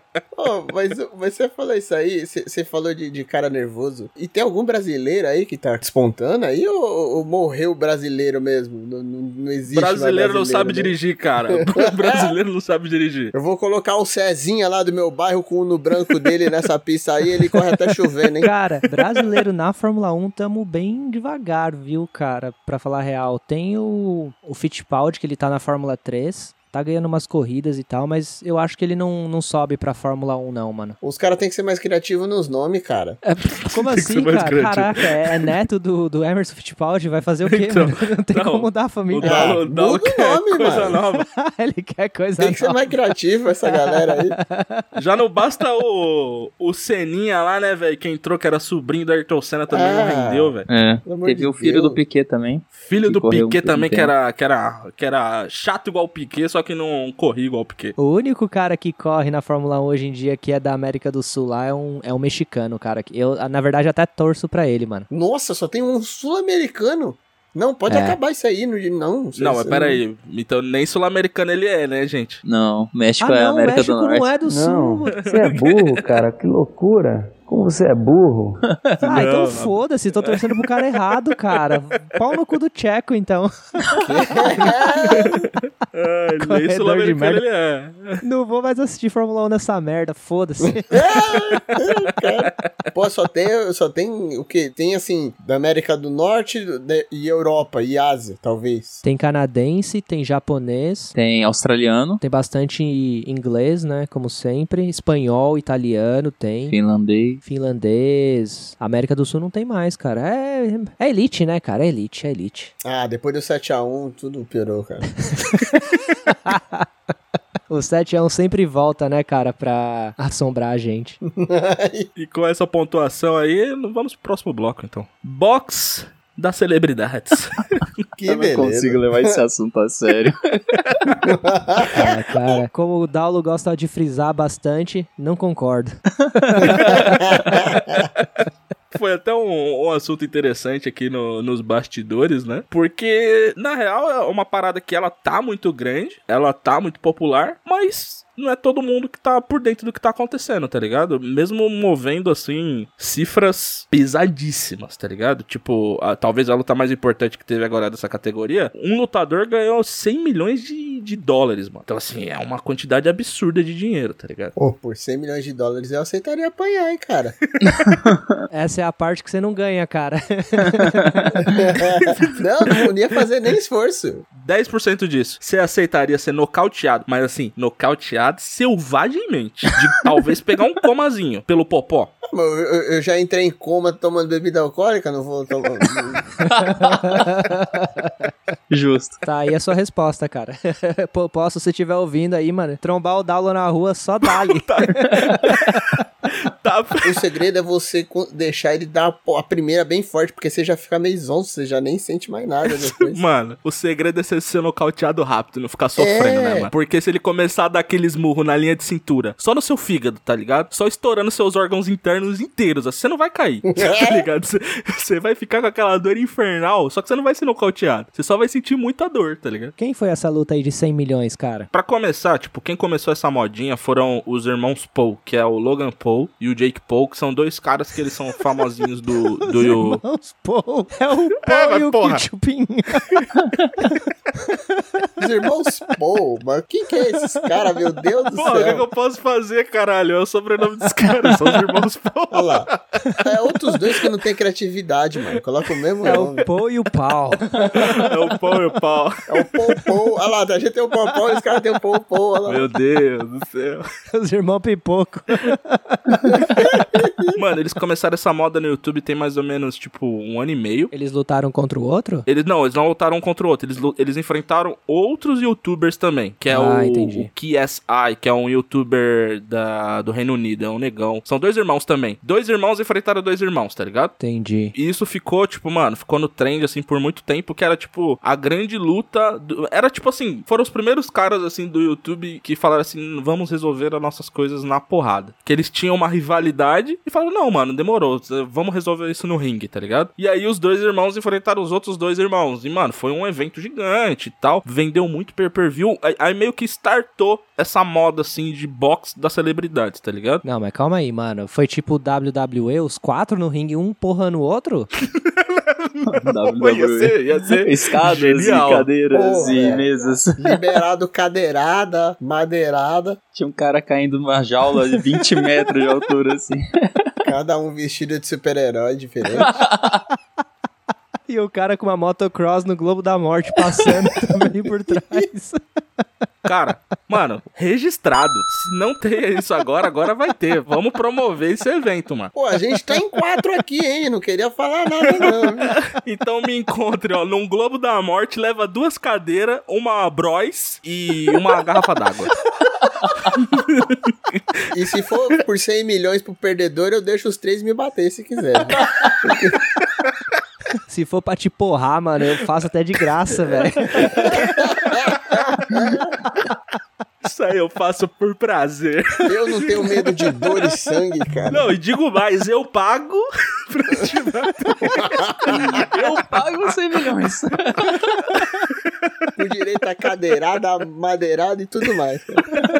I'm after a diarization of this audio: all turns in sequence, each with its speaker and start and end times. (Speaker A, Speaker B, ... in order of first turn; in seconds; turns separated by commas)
Speaker A: 0.3-10.9, Speaker B: 9.7-13.3, Speaker A: 11.7-12.3, Speaker A: 13.3-18.5, Speaker C: 18.4-31.0, Speaker A: 31.0-33.2, Speaker C: 33.2-39.6, Speaker B: 33.6-35.5, Speaker B: 37.5-41.3, Speaker A: 39.2-41.0, Speaker C: 41.3-42.9, Speaker A: 42.4-44.4, Speaker C: 43.7-44.8, Speaker B: 44.9-50.7, Speaker A: 49.7-50.5, Speaker D: 50.7-54.1, Speaker A: 51.1-52.0, Speaker B: 52.8-58.0, Speaker C: 58.0-65.1, Speaker A: 65.1-70.0, Speaker C: 67.9-68.2, Speaker B: 69.4-72.4, Speaker D: 72.4-74.3, Speaker C: 73.2-75.4, Speaker E: 74.5-78.6, Speaker B: 75.2-76.0, Speaker B: 79.0-81.0, Speaker C: 79.0-85.3, Speaker A: 84.0-85.4, Speaker B: 85.1-88.2, Speaker C: 86.4-87.4, Speaker C: 88.2-91.2, Speaker A: 90.6-99.0, Speaker C: 99.0-101.1, Speaker D: 101.1-102.2, Speaker C: 102.2-106.8, Speaker D: 106.7-107.4, Speaker C: 107.4-112.7, Speaker A: 112.8-115.2, Speaker C: 115.3-115.8, Speaker C: 116.4-116.9, Speaker C: 117.7-121.2, Speaker A: 121.3-122.1, Speaker B: 122.2-127.9, Speaker A: 128.2-129.3, Speaker D: 128.3-130.7, Speaker A: 131.2-132.6, Speaker C: 131.9-137.8, Speaker B: 136.6-137.8, Speaker A: 136.8-138.0, Speaker B: 138.9-164.6, Speaker A: 164.6-167.3, Speaker B: 167.6-168.0, Speaker C: 168.5-171.0, Speaker A: 171.5-174.2, Speaker B: 174.3-182.1, Speaker A: 182.3-186.9, Speaker C: 186.6-188.1, Speaker D: 188.7-189.2, Speaker C: 189.2-195.8, Speaker B: 194.4-197.2, Speaker A: 197.0-203.2, Speaker B: 202.7-219.7, Speaker A: 206.0-206.7, Speaker A: 213.8-214.2, Speaker C: 219.8-221.7, Speaker B: 221.7-230.0, Speaker C: 229.4-233.2, Speaker B: 231.5-232.2, Speaker A: 235.2-238.8, Speaker B: 238.3-243.2, Speaker A: 242.3-242.7, Speaker A: 243.2-246.4, Speaker C: 246.0-247.9, Speaker B: 247.7-249.8, Speaker A: 249.3-252.7, Speaker B: 252.4-253.8, Speaker C: 254.1-256.8, Speaker A: 256.2-257.3, Speaker B: 256.5-256.8, Speaker B: 257.3-260.9, Speaker C: 260.9-262.3, Speaker B: 262.3-274.1, Speaker C: 266.5-267.3, Speaker C: 274.2-274.7, Speaker B: 274.7-300.4, Speaker C: 300.4-304.9, Speaker B: 305.2-308.9, Speaker D: 306.1-310.4, Speaker A: 309.1-313.2, Speaker D: 313.3-316.6, Speaker A: 317.2-319.6, Speaker D: 319.4-320.0, Speaker C: 321.3-325.6, Speaker B: 326.4-332.3, Speaker A: 332.3-335.7, Speaker B: 335.1-342.4, Speaker B: 343.2-344.4, Speaker A: 344.7-349.6, Speaker C: 350.9-354.5, Speaker B: 353.5-355.8, Speaker A: 354.2-355.1, Speaker B: 357.2-360.4, Speaker A: 359.3-361.7, Speaker B: 361.5-366.7, Speaker A: 364.9-365.8, Speaker D: 365.7-368.4, Speaker B: 367.9-368.4, Speaker A: 369.4-372.4